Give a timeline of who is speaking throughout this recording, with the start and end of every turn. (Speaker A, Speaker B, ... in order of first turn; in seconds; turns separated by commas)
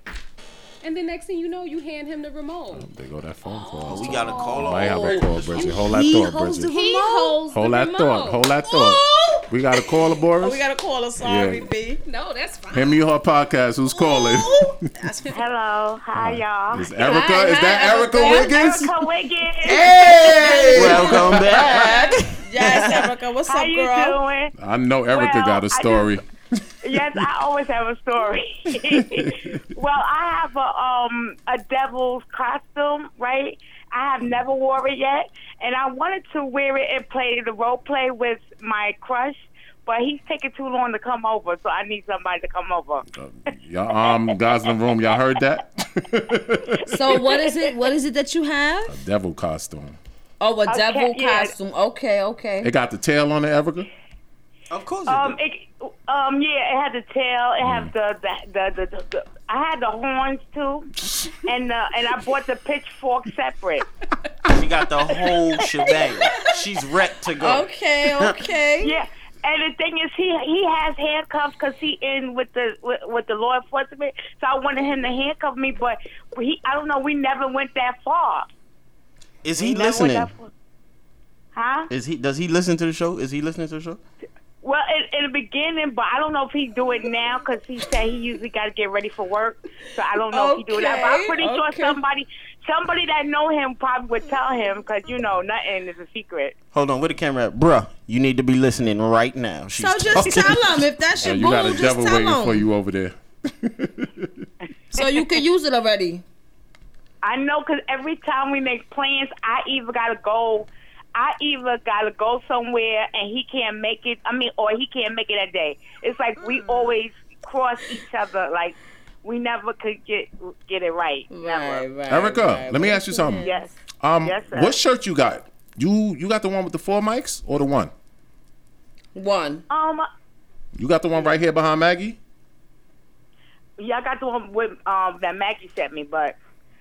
Speaker A: 0.8-2.9, Speaker B: 2.7-6.7, Speaker C: 3.6-7.4, Speaker A: 3.8-4.5, Speaker D: 3.9-5.9, Speaker A: 6.7-8.5, Speaker B: 7.5-10.6, Speaker C: 8.6-12.0, Speaker B: 11.2-11.7, Speaker A: 12.0-13.0, Speaker B: 12.7-14.8, Speaker C: 13.9-15.4, Speaker E: 15.3-17.0, Speaker B: 16.1-19.0, Speaker C: 17.0-18.8, Speaker E: 18.2-19.9, Speaker D: 19.6-23.1, Speaker C: 19.7-24.2, Speaker B: 20.0-21.8, Speaker A: 21.7-22.1, Speaker E: 23.5-24.5, Speaker B: 24.6-27.2, Speaker E: 25.1-26.1, Speaker E: 26.8-43.0, Speaker B: 28.8-29.6, Speaker B: 43.1-47.2, Speaker E: 44.1-44.7, Speaker C: 46.9-48.9, Speaker E: 47.3-47.6, Speaker B: 48.9-50.0, Speaker C: 50.4-52.7, Speaker E: 50.7-51.5, Speaker B: 52.6-53.9, Speaker D: 54.7-55.4, Speaker E: 55.1-60.9, Speaker B: 57.6-57.9, Speaker E: 61.4-63.8, Speaker D: 64.5-68.4, Speaker C: 67.4-69.0, Speaker E: 68.8-78.5, Speaker D: 79.4-80.3, Speaker E: 79.5-80.5, Speaker E: 81.5-81.9, Speaker D: 81.9-84.0, Speaker E: 84.6-96.5, Speaker C: 90.2-92.0, Speaker D: 96.7-100.8, Speaker C: 99.8-102.7, Speaker B: 101.2-104.5, Speaker C: 104.9-106.2, Speaker E: 107.2-121.9, Speaker C: 121.3-123.7, Speaker B: 122.1-123.5, Speaker E: 123.4-123.7, Speaker B: 124.0-127.9, Speaker E: 124.2-124.8, Speaker C: 129.1-129.7, Speaker E: 129.7-130.1, Speaker B: 130.7-132.2, Speaker E: 133.8-136.3